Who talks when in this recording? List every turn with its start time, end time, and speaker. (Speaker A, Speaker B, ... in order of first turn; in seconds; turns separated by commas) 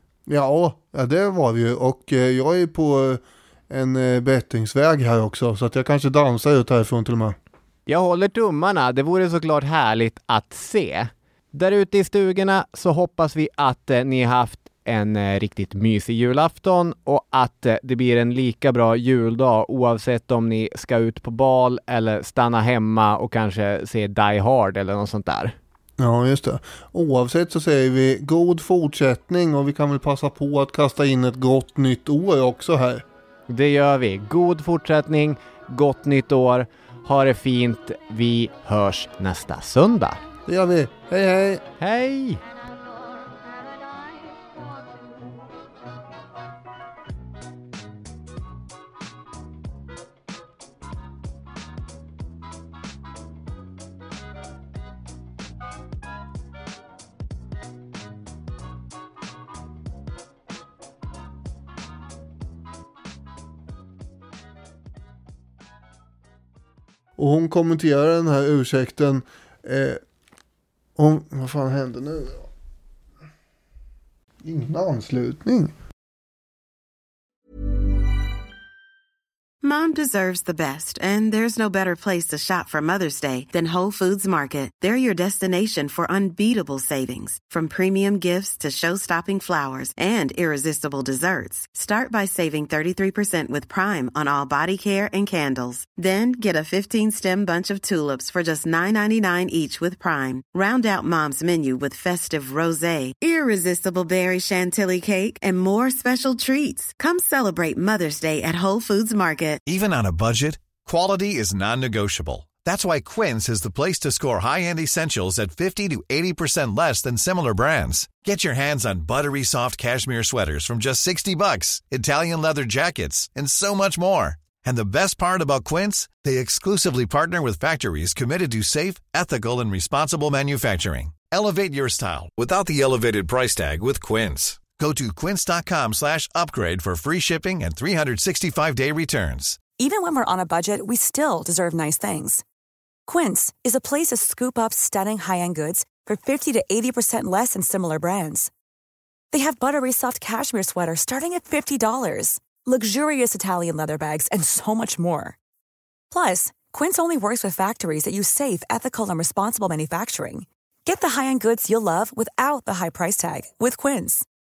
Speaker A: 0.3-7.4, Speaker B: 7.9-25.5, Speaker A: 26.0-33.0, Speaker B: 33.5-40.2, Speaker A: 40.5-41.6, Speaker B: 41.8-42.4, Speaker A: 67.2-70.0, Speaker A: 71.0-72.5, Speaker A: 74.4-75.7, Speaker C: 79.6-109.6, Speaker D: 109.6-139.6, Speaker E: 139.8-142.4, Speaker E: 143.1-148.5, Speaker E: 149.3-155.3, Speaker E: 156.1-164.2